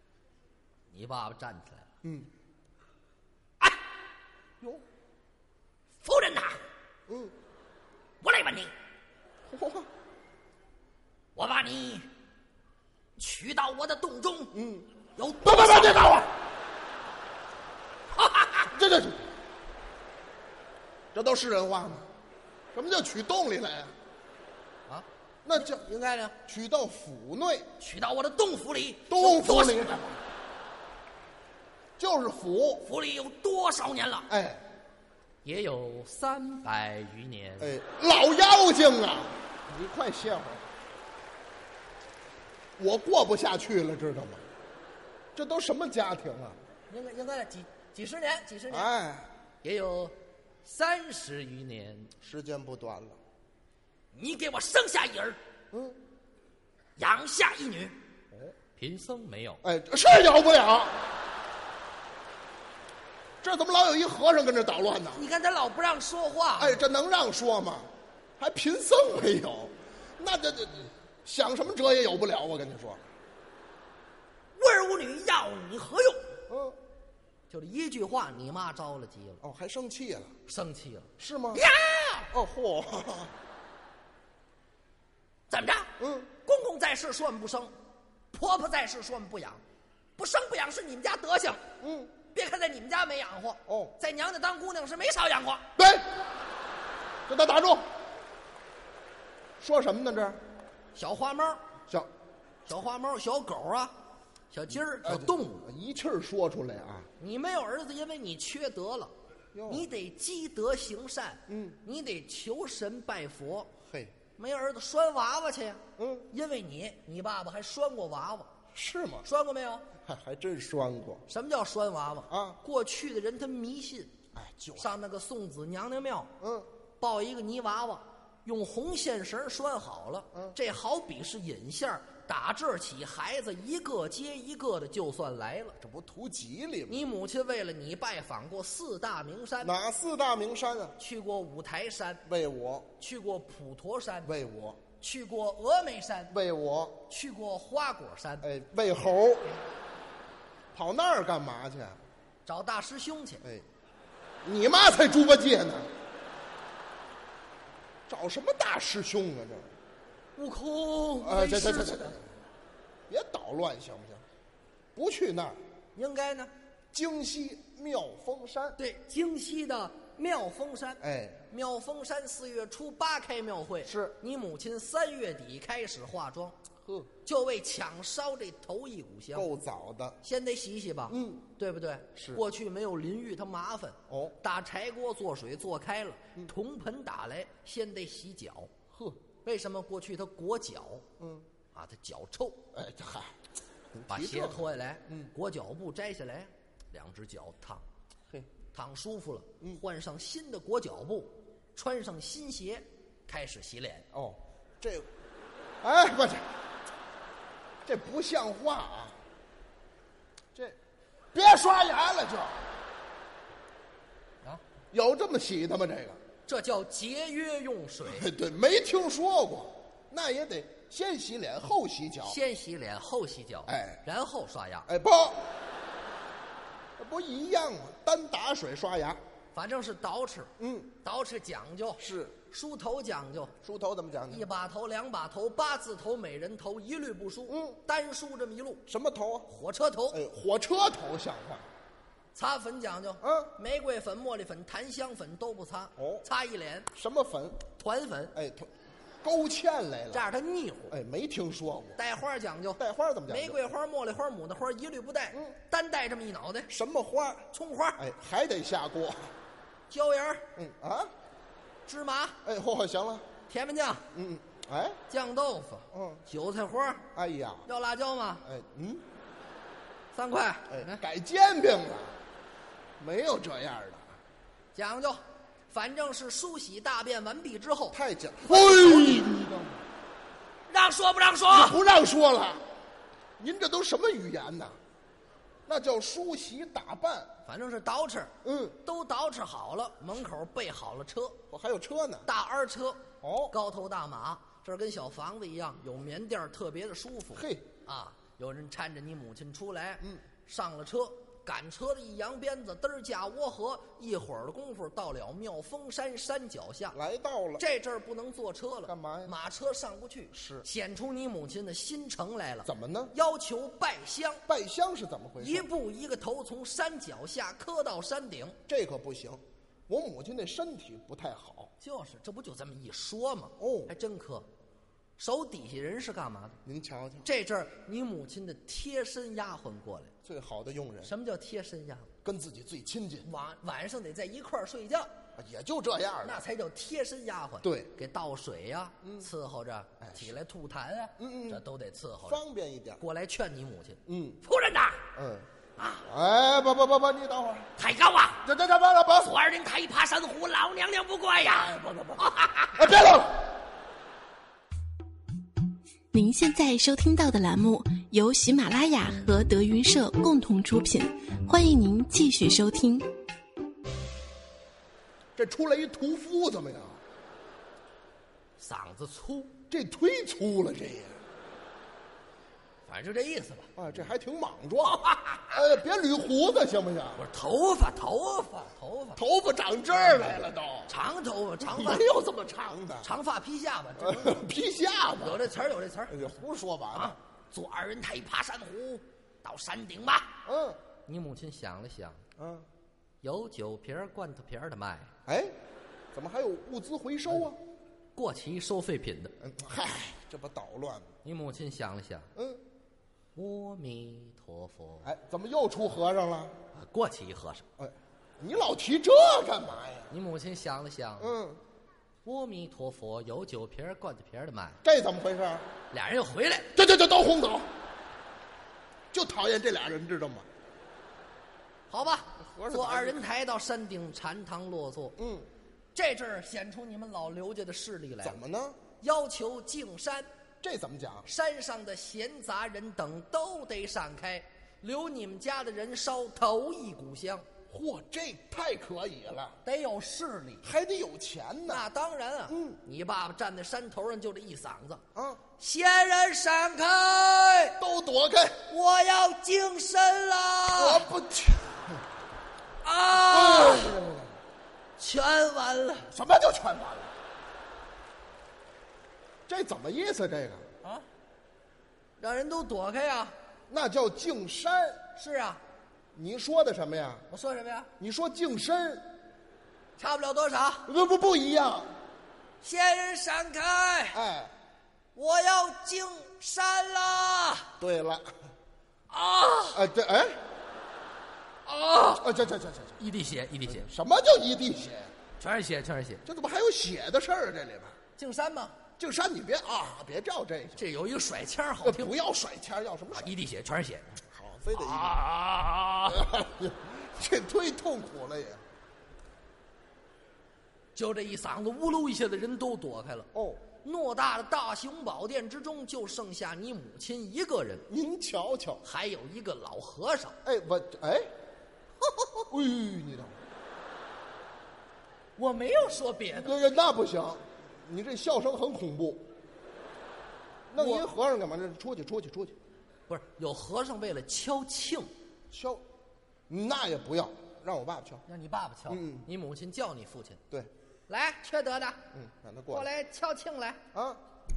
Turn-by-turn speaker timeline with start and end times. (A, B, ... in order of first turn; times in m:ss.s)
0:00.9-0:01.9 A
0:02.0-0:02.3 B
0:06.0-0:06.6 A
0:07.1-0:07.3 B
0:08.2-0:08.7 A
0:09.5-0:09.9 B
0:11.4-0:12.1 A
0:13.2-0:14.5 A
0:14.5-0:14.9 B
0:15.2-0:16.2 A
0:15.4-0:16.3 B
0:18.1-0:18.7 A
0:18.7-0:19.3 B
0:21.1-0:22.1 B
0:22.7-0:23.9 B
0:24.9-0:26.4 A
0:25.4-0:25.8 B
0:26.4-0:27.7 B
0:27.8-0:29.8 A
0:29.1-0:30.2 B
0:32.0-0:32.9 B
0:32.8-0:34.3 A
0:34.3-0:34.6 B
0:35.4-0:37.7 A
0:37.6-0:40.7 B
0:42.8-0:44.4 B
0:45.3-0:46.6 B
0:46.9-0:48.9 A
0:48.7-0:49.3 B
0:49.6-0:52.1 A
0:52.2-0:53.2 B
0:54.1-0:55.4 A
0:55.7-0:56.0 B
0:57.0-0:58.0 A
0:58.8-0:59.6 A
0:59.6-1:01.1 B
1:03.4-1:05.2 B
1:05.1-1:06.8 A
1:06.6-1:13.0 B
1:14.5-1:16.3 A
1:16.5-1:16.8 B
1:17.5-1:19.4 A
1:19.4-1:20.3 B
1:20.5-1:22.3 A
1:21.2-1:21.6 B
1:22.3-1:23.3 B
1:25.5-1:27.7 A
1:26.0-1:26.3 B
1:28.3-1:29.6 A
1:30.2-1:31.6 A
1:31.8-1:32.1 B
1:32.3-1:35.7 A
1:33.7-1:33.9 B
1:35.8-1:36.2 B
1:37.3-1:37.9 B
1:39.6-1:40.4 B
1:40.9-1:41.6 A
1:42.6-1:43.9 A
1:44.5-1:45.6 A
1:45.0-1:47.1 B
1:47.2-1:49.1 A
1:49.5-1:49.9 B
1:49.7-1:53.7 A
1:51.5-1:51.8 B
1:53.8-1:54.2 B
1:54.4-1:58.5 A
1:56.0-1:56.3 B
1:58.7-1:59.2 B
1:59.2-1:59.9 A
2:00.0-2:01.2 B
2:01.3-2:04.1 A
2:02.3-2:02.6 B
2:04.3-2:04.9 B
2:04.8-2:06.3 A
2:06.4-2:06.7 B
2:07.0-2:15.8 A
2:15.8-2:17.0 B
2:16.9-2:19.7 A
2:19.6-2:21.0 B
2:21.0-2:22.2 A
2:22.2-2:22.9 B
2:23.0-2:24.3 A
2:24.2-2:24.8 B
2:25.0-2:26.3 A
2:26.3-2:27.0 B
2:27.1-2:28.4 A
2:28.4-2:29.6 B
2:30.7-2:32.0 B
2:32.4-2:33.4 A
2:34.4-2:35.9 B
2:38.1-2:39.7 B
2:40.4-2:42.2 A
2:41.2-2:42.3 B
2:43.1-2:44.2 B
2:45.0-2:45.6 B
2:46.0-2:46.5 A
2:46.9-2:48.8 B
2:48.8-2:56.6 A
2:51.0-2:51.4 B
2:53.8-2:54.2 B
2:56.8-2:57.1 B
2:57.2-2:59.5 A
2:59.3-3:00.2 B
3:00.2-3:08.7 A
3:01.1-3:01.5 B
3:02.2-3:02.4 B
3:04.1-3:04.4 B
3:08.9-3:09.2 B
3:09.4-3:11.0 A
3:11.2-3:11.5 B
3:11.7-3:12.6 A
3:12.7-3:13.4 B
3:13.9-3:15.3 B
3:14.1-3:17.8 A
3:18.7-3:24.0 A
3:24.1-3:25.1 B
3:25.8-3:26.5 B
3:27.8-3:29.2 B
3:31.3-3:32.7 B
3:34.9-3:36.2 B
3:36.5-3:38.3 A
3:38.0-3:42.4 B
3:42.2-3:44.9 A
3:43.7-3:44.0 B
3:44.9-3:45.5 B
3:47.0-3:49.2 B
3:49.5-3:50.5 A
3:50.6-3:50.9 B
3:51.0-3:53.6 A
3:52.0-3:52.3 B
3:53.6-3:54.5 B
3:54.3-3:58.8 A
3:57.5-3:57.8 B
3:58.9-3:59.5 B
3:59.5-4:00.2 A
4:00.1-4:01.6 B
4:02.3-4:06.9 A
4:03.2-4:03.5 B
4:06.0-4:06.2 B
4:06.9-4:07.6 B
4:07.8-4:08.3 A
4:08.3-4:08.7 B
4:09.2-4:10.2 B
4:10.1-4:10.9 A
4:10.9-4:12.0 B
4:12.0-4:16.7 A
4:12.8-4:13.7 B
4:16.7-4:19.3 B
4:17.5-4:18.0 A
4:19.9-4:20.4 A
4:20.6-4:21.1 B
4:21.8-4:22.4 A
4:22.4-4:23.3 B
4:23.5-4:24.1 A
4:24.1-4:25.0 B
4:25.1-4:27.0 A
4:25.9-4:26.2 B
4:27.1-4:27.6 B
4:27.7-4:28.4 A
4:28.4-4:29.0 B
4:30.1-4:31.0 A
4:30.7-4:32.2 B
4:33.0-4:34.1 B
4:34.7-4:39.3 A
4:37.9-4:39.8 B
4:40.7-4:41.8 A
4:41.5-4:42.6 B
4:43.4-4:44.8 B
4:45.7-4:47.3 B
4:47.4-4:51.4 A
4:48.4-4:48.8 B
4:51.5-4:52.3 B
4:52.2-5:07.0 A
4:53.2-4:53.5 B
4:57.3-4:57.7 B
5:06.9-5:07.6 B
5:07.6-5:14.4 A
5:08.9-5:09.3 B
5:10.3-5:10.6 B
5:12.6-5:13.1 B
5:14.5-5:15.7 B
5:15.4-5:18.6 A
5:18.7-5:21.7 B
5:21.8-5:24.5 A
5:23.6-5:23.9 B
5:25.2-5:26.6 A
5:26.6-5:27.3 B
5:27.2-5:30.1 A
5:30.2-5:31.1 B
5:31.0-5:32.1 A
5:32.2-5:33.3 B
5:33.2-5:35.1 A
5:35.3-5:36.4 B
5:36.2-5:42.4 A
5:37.6-5:37.9 B
5:39.0-5:39.3 B
5:40.0-5:40.3 B
5:41.2-5:41.6 B
5:42.2-5:43.0 B
5:43.0-5:45.0 A
5:44.0-5:44.4 B
5:45.1-5:45.5 B
5:45.8-5:46.0 A
5:46.0-5:47.7 B
5:47.8-5:48.4 A
5:48.4-5:49.3 B
5:49.2-5:52.9 A
5:51.4-5:53.5 B
5:56.1-6:03.1 C
6:05.4-6:07.0 B
6:08.6-6:09.5 A
6:09.7-6:11.2 B
6:12.8-6:13.7 A
6:13.8-6:17.2 B
6:15.0-6:15.6 A
6:17.2-6:19.2 A
6:19.2-6:20.9 B
6:20.0-6:22.0 A
6:21.6-6:23.1 B
6:23.0-6:24.4 A
6:24.0-6:25.5 B
6:25.2-6:26.2 A
6:26.1-6:27.2 B
6:26.9-6:30.4 A
6:30.4-6:30.8 B
6:31.0-6:32.2 A
6:32.4-6:32.7 B
6:33.2-6:35.1 A
6:35.2-6:35.6 B
6:36.1-6:37.6 B
6:38.1-6:39.3 A
6:39.4-6:41.1 B
6:41.2-6:42.3 A
6:42.3-6:42.6 B
6:43.4-6:45.1 A
6:45.0-6:46.6 B
6:46.7-6:47.6 A
6:47.8-6:50.1 B
6:50.1-6:51.3 A
6:51.2-6:51.6 B
6:52.2-6:54.8 A
6:54.8-6:55.7 B
6:55.9-6:56.7 A
6:56.7-6:57.7 B
6:59.1-7:00.5 B
7:01.9-7:05.2 A
7:02.4-7:03.3 B
7:05.2-7:05.5 B
7:05.9-7:08.4 A
7:08.2-7:08.8 B
7:09.0-7:10.3 A
7:10.6-7:11.3 B
7:11.2-7:17.4 A
7:17.7-7:19.6 B
7:19.6-7:20.6 A
7:20.6-7:21.8 B
7:21.7-7:25.0 A
7:22.5-7:22.8 B
7:25.1-7:25.4 B
7:25.6-7:27.8 A
7:27.8-7:28.6 B
7:28.7-7:31.0 A
7:30.8-7:32.0 B
7:32.8-7:34.0 A
7:33.1-7:34.4 B
7:35.0-7:36.1 A
7:36.1-7:37.1 B
7:39.5-7:40.7 B
7:42.2-7:43.3 A
7:43.7-7:45.0 B
7:45.2-7:45.6 A
7:46.1-7:47.3 B
7:47.3-7:47.9 A
7:48.0-7:49.1 B
7:50.0-7:50.9 A
7:50.9-7:51.9 B
7:52.6-7:54.2 A
7:54.1-7:54.5 B
7:55.1-7:57.7 A
7:57.8-7:58.3 B
7:59.1-7:59.8 A
7:59.7-8:00.4 B
8:01.6-8:02.2 A
8:02.2-8:03.0 B
8:03.0-8:03.8 A
8:03.7-8:05.1 B
8:05.4-8:06.2 A
8:06.2-8:08.0 B
8:08.2-8:08.8 A
8:09.0-8:10.8 B
8:10.8-8:12.1 A
8:11.8-8:13.3 B
8:13.1-8:14.2 A
8:14.3-8:15.2 B
8:14.7-8:16.2 A
8:16.0-8:18.6 B
8:21.0-8:23.3 A
8:23.3-8:23.6 B
8:23.8-8:27.8 A
8:27.9-8:28.8 B
8:28.8-8:30.4 A
8:30.4-8:31.3 B
8:32.1-8:32.4 A
8:32.5-8:33.4 B
8:35.4-8:36.5 A
8:36.4-8:39.3 B
8:40.7-8:42.6 B
8:40.8-8:41.0 A
8:43.1-8:45.1 A
8:45.5-8:45.8 B
8:46.5-8:48.2 B
8:48.2-8:50.4 A
8:48.9-8:49.3 B
8:51.1-8:52.0 A
8:52.1-8:52.9 B
8:52.7-8:53.8 A
8:53.9-8:54.2 B